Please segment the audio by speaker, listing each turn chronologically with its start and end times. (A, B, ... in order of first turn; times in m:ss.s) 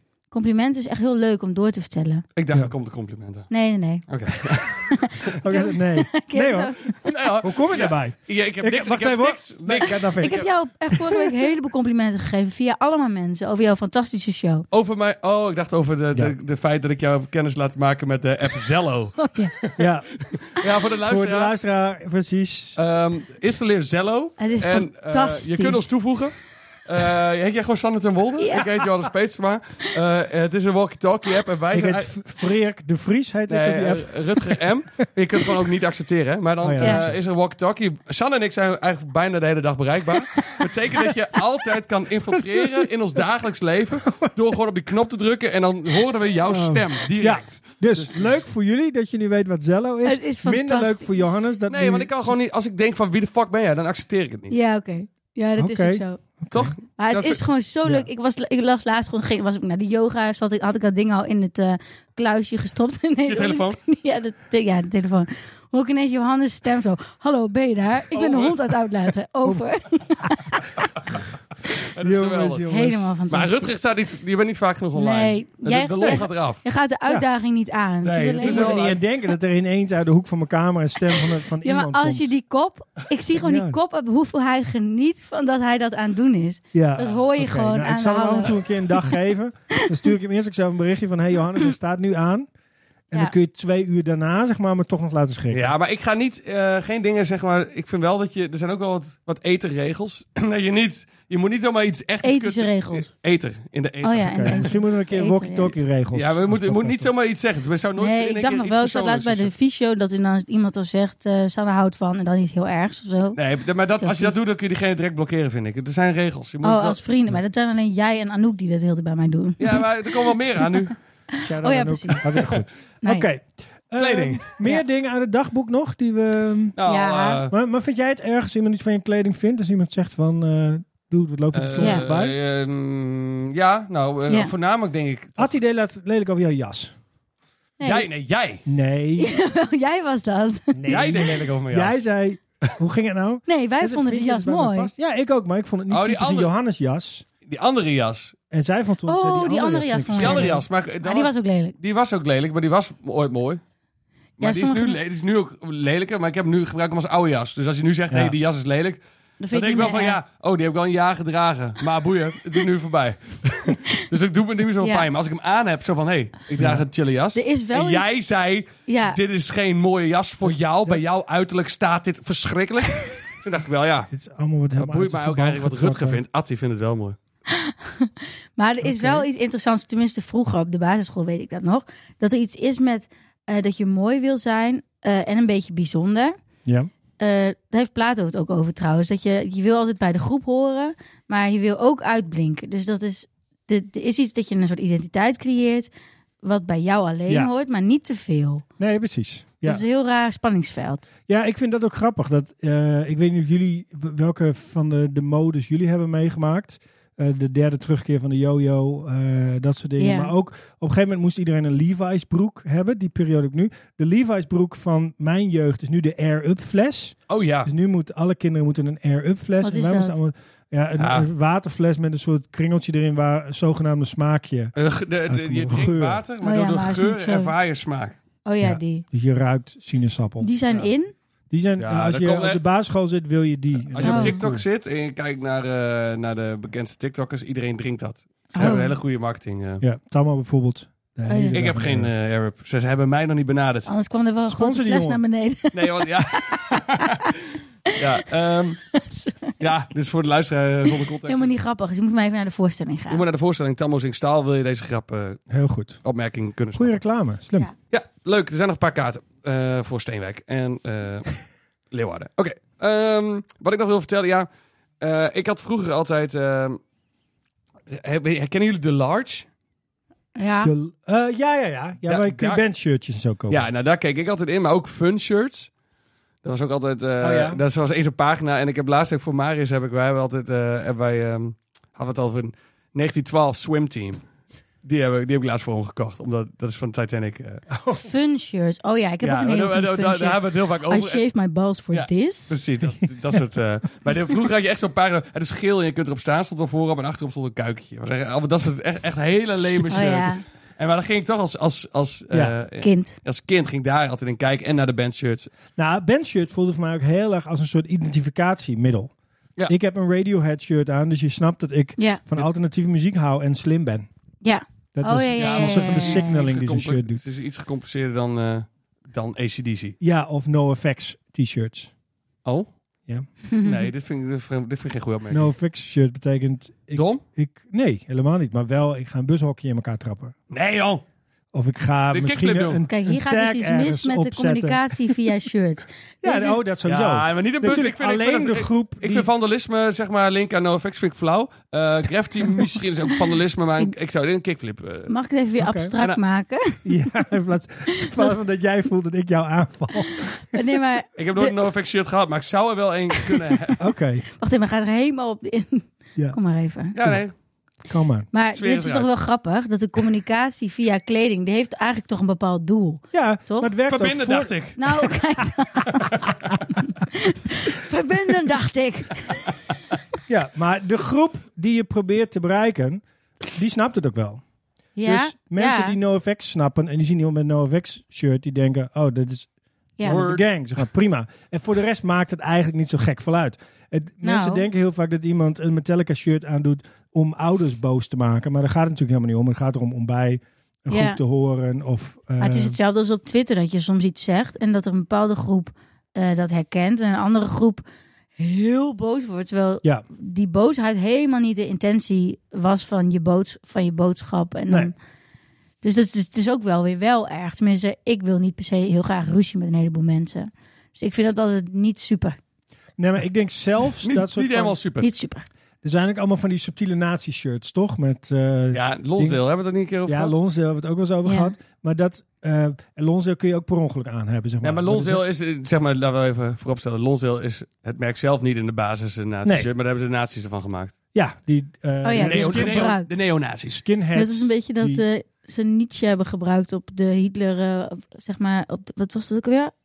0:00.3-0:02.2 A
0:02.4-0:03.5 B
0:03.5-0:04.1 A
0:04.1-0:05.0 B
0:04.9-0:07.1 A
0:05.4-0:06.8 C
0:06.9-0:10.5 B
0:07.4-0:10.4 C
0:10.2-0:14.6 A
0:14.7-0:21.5 B
0:19.2-0:19.5 A
0:19.8-0:20.2 C
0:21.0-0:22.8 C
0:22.8-0:32.2 B
0:24.4-0:25.9 A
0:28.4-0:28.7 A
0:31.7-0:34.6 C
0:33.5-0:48.4 B
0:36.6-0:37.2 C
0:42.4-0:42.9 C
0:46.5-0:52.3 C
0:50.0-0:51.4 A
0:51.7-0:54.6 B
0:54.5-0:56.2 A
0:55.6-0:56.7 C
0:56.5-0:57.4 B
0:57.0-1:10.6 A
1:03.3-1:03.8 B
1:08.1-1:08.6 B
1:11.8-1:12.6 B
1:12.0-1:13.1 C
1:12.7-1:13.5 A
1:13.3-1:16.6 B
1:15.0-1:18.8 A
1:18.0-1:19.0 B
1:18.1-1:22.3 C
1:21.6-1:29.0 A
1:23.4-1:23.8 C
1:26.7-1:32.5 C
1:33.1-1:35.7 C
1:35.5-1:44.7 B
1:42.2-1:43.1 A
1:44.0-1:45.8 A
1:44.3-1:47.1 C
1:46.1-1:49.5 B
1:48.0-1:53.4 A
1:53.4-1:57.0 B
1:54.0-1:54.3 A
1:56.6-1:59.8 A
1:59.6-2:01.0 B
2:01.4-2:02.4 A
2:01.4-2:06.8 C
2:04.0-2:04.5 B
2:06.8-2:07.5 B
2:06.8-2:07.4 A
2:07.5-2:12.4 C
2:11.5-2:15.5 B
2:11.8-2:12.0 A
2:15.4-2:16.9 C
2:17.8-2:18.1 A
2:17.8-2:18.6 B
2:18.7-2:19.3 C
2:19.2-2:21.0 A
2:20.8-2:27.3 C
2:20.9-2:22.0 B
2:23.5-2:24.9 A
2:25.9-2:26.5 B
2:27.4-2:28.4 B
2:28.5-2:30.6 C
2:29.1-2:31.8 A
2:30.2-2:33.6 B
2:34.4-2:39.0 B
2:34.4-2:35.0 A
2:39.4-2:40.2 A
2:39.5-2:54.1 B
2:44.8-2:45.1 A
2:46.6-2:46.9 C
2:47.4-2:48.1 A
2:48.9-2:49.2 A
2:50.5-2:51.0 C
2:54.1-2:56.2 C
2:54.8-2:57.2 B
2:57.5-3:06.4 A
2:58.8-2:59.3 C
3:06.6-3:06.9 C
3:07.2-3:15.9 A
3:16.4-3:18.6 A
3:18.8-3:19.8 C
3:19.6-3:21.1 A
3:21.3-3:44.7 C
3:30.0-3:30.3 A
3:37.3-3:37.7 B
3:39.6-3:40.2 A
3:41.0-3:41.3 B
3:44.8-3:48.2 B
3:45.3-3:46.2 C
3:46.4-3:47.5 A
3:48.5-3:49.0 A
3:48.6-3:50.5 C
3:50.4-3:51.1 A
3:51.5-3:54.6 C
3:51.8-3:52.6 B
3:53.8-3:59.8 B
3:54.0-3:54.4 A
3:58.5-3:58.8 C
3:58.6-3:59.0 A
3:59.8-4:02.1 C
4:01.3-4:01.6 A
4:01.5-4:03.9 B
4:03.9-4:07.2 A
4:04.5-4:05.2 C
4:05.7-4:07.2 B
4:07.9-4:08.8 B
4:08.9-4:09.6 A
4:09.6-4:11.6 B
4:11.2-4:13.2 A
4:13.1-4:15.4 B
4:15.5-4:16.0 C
4:16.0-4:17.0 B
4:16.7-4:17.7 C
4:17.9-4:21.3 B
4:21.9-4:24.5 B
4:25.0-4:26.8 B
4:27.9-4:29.5 B
4:30.4-4:30.7 A
4:30.6-4:33.6 C
4:32.0-4:32.6 B
4:33.5-4:35.7 B
4:36.4-4:44.2 B
4:37.2-4:37.6 C
4:44.8-4:47.6 B
4:47.7-4:48.1 C
4:47.9-4:52.6 A
4:49.2-4:51.2 B
4:51.9-5:05.5 B
4:59.9-5:00.4 A
5:02.8-5:03.2 A
5:05.8-5:09.1 C
5:09.7-5:14.1 C
5:12.0-5:12.2 A
5:14.4-5:16.4 A
5:15.0-5:17.2 C
5:15.4-5:20.0 B
5:20.0-5:21.9 C
5:22.4-5:22.7 B
5:23.5-5:23.9 A
5:23.6-5:25.5 B
5:25.3-5:30.3 C
5:26.9-5:27.2 B
5:30.5-5:31.0 B
5:31.5-5:35.2 C
5:32.1-5:32.8 B
5:32.9-5:36.6 A
5:36.2-5:39.3 C
5:36.9-5:45.1 B
5:45.1-5:46.9 A
5:45.6-5:45.9 C
5:46.8-5:50.6 C
5:48.0-5:48.2 A
5:50.5-5:51.6 A
5:51.2-5:53.8 B
5:53.8-5:54.2 C
5:54.3-5:57.0 A
5:57.0-5:57.3 B
5:57.9-5:58.3 C
5:58.3-6:03.7 A
5:58.5-5:59.1 B
6:03.1-6:04.7 C
6:03.9-6:04.8 B
6:04.8-6:06.2 A
6:06.3-6:06.6 C
6:06.7-6:09.4 A
6:10.3-6:14.4 C
6:15.0-6:16.0 A
6:15.1-6:19.5 C
6:20.0-6:32.8 C
6:20.1-6:20.5 B
6:24.2-6:24.6 A
6:30.9-6:31.2 A
6:32.4-6:37.8 A
6:38.4-6:44.9 A
6:45.8-6:52.4 A
6:53.0-6:54.8 C
6:54.0-6:55.1 B
6:55.0-6:55.5 A
6:55.8-6:59.4 C
6:58.7-7:00.4 B
7:00.1-7:05.2 C
7:01.2-7:01.5 A
7:04.6-7:11.0 B
7:09.4-7:09.7 C
7:11.1-7:13.0 C
7:12.0-7:13.1 A
7:12.2-7:13.8 B
7:13.7-7:15.0 C
7:14.2-7:19.7 A